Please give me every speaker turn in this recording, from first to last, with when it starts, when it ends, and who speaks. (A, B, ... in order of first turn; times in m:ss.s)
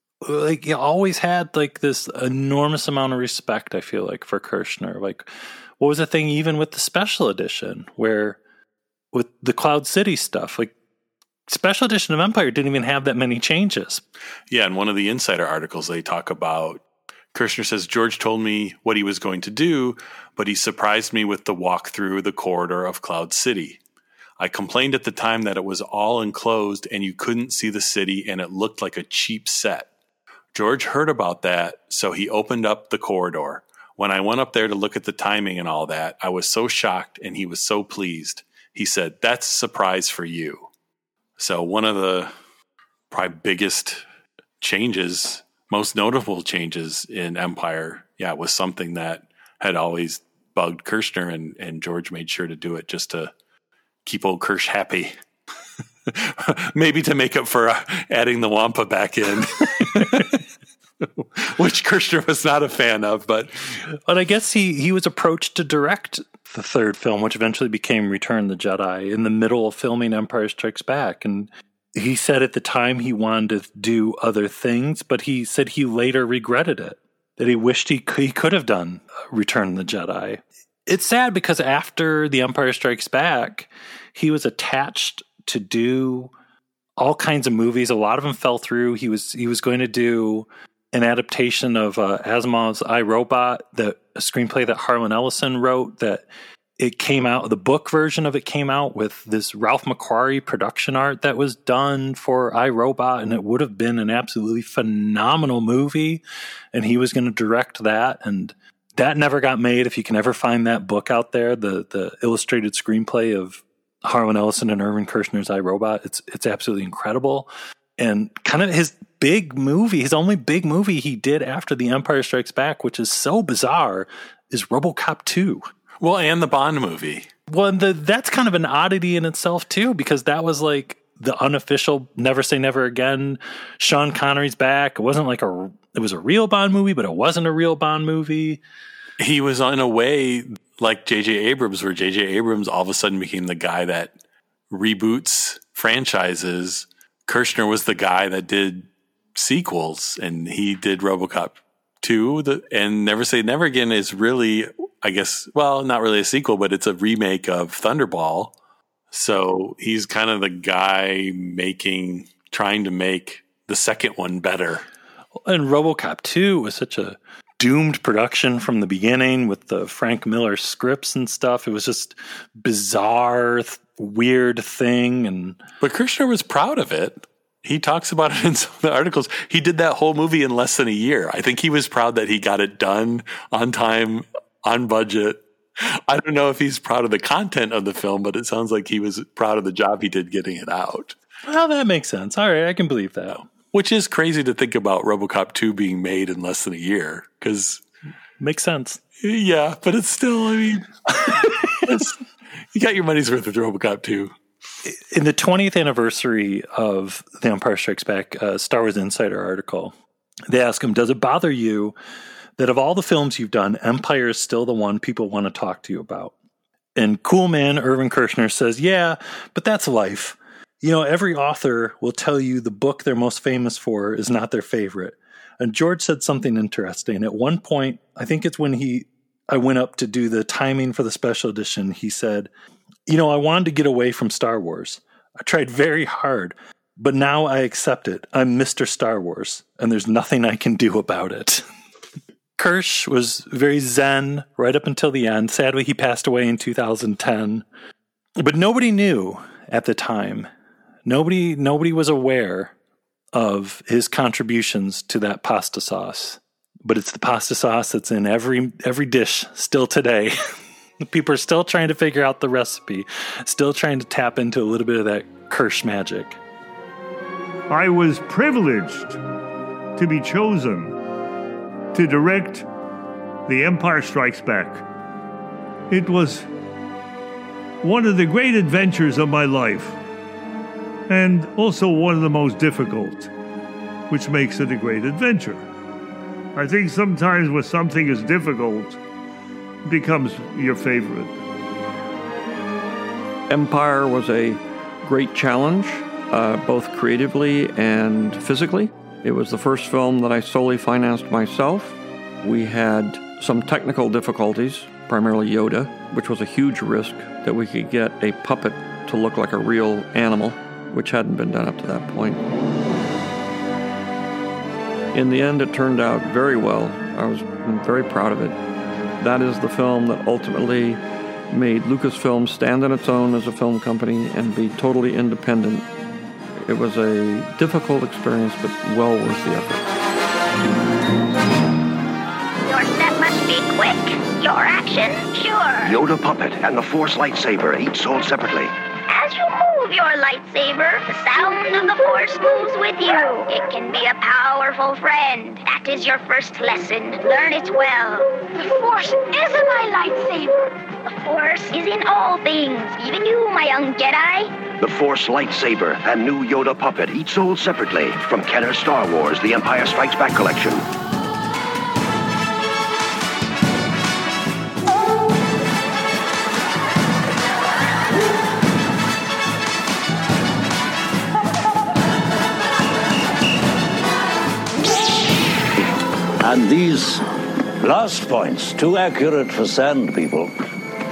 0:00.2-0:08.4 A
0:09.1-0:10.7 A
0:11.5-0:14.0 A
0:14.5-0:16.8 B
0:17.3-0:23.8 B
0:24.4-0:29.9 B
0:30.5-0:40.7 B
0:41.4-0:42.3 B
0:43.1-0:44.0 B
0:44.6-0:53.3 B
0:54.0-0:55.1 B
0:56.1-1:00.4 B
1:01.0-1:03.8 B
1:04.0-1:26.3 A
1:27.0-1:36.3 A
1:36.8-1:46.2 A
1:46.7-2:05.7 A
2:06.0-2:07.3 B
2:07.5-2:18.6 A
2:19.2-2:24.1 B
2:24.7-2:38.5 B
2:39.1-2:44.8 B
2:45.4-2:55.6 A
2:55.8-3:11.2 B
3:11.4-3:13.5 A
3:13.7-3:17.8 B
3:18.4-3:19.0 A
3:19.2-3:22.2 B
3:22.7-3:24.3 B
3:24.8-3:29.9 A
3:30.5-3:32.0 A
3:32.6-3:36.3 A
3:37.0-3:52.5 A
3:53.0-4:01.6 A
4:02.6-4:07.6 A
4:08.4-4:10.5 A
4:11.0-4:12.7 A
4:13.3-4:20.4 A
4:21.0-4:26.4 A
4:27.7-4:29.2 C
4:30.0-4:31.0 C
4:31.9-4:32.6 C
4:33.5-4:34.8 C
4:35.9-4:36.5 C
4:37.8-4:40.0 C
4:41.1-4:43.3 C
4:44.1-4:45.6 C
4:46.5-4:49.0 C
4:49.8-4:51.4 C
4:53.5-5:12.4 D
5:15.1-5:18.6 D
5:19.2-5:25.9 D
5:26.6-5:29.9 D
5:32.7-5:36.0 E
5:35.8-5:38.7 F
5:39.1-5:54.5 E
5:54.8-6:00.8 F
6:16.4-6:17.2 G
6:17.8-6:20.5 G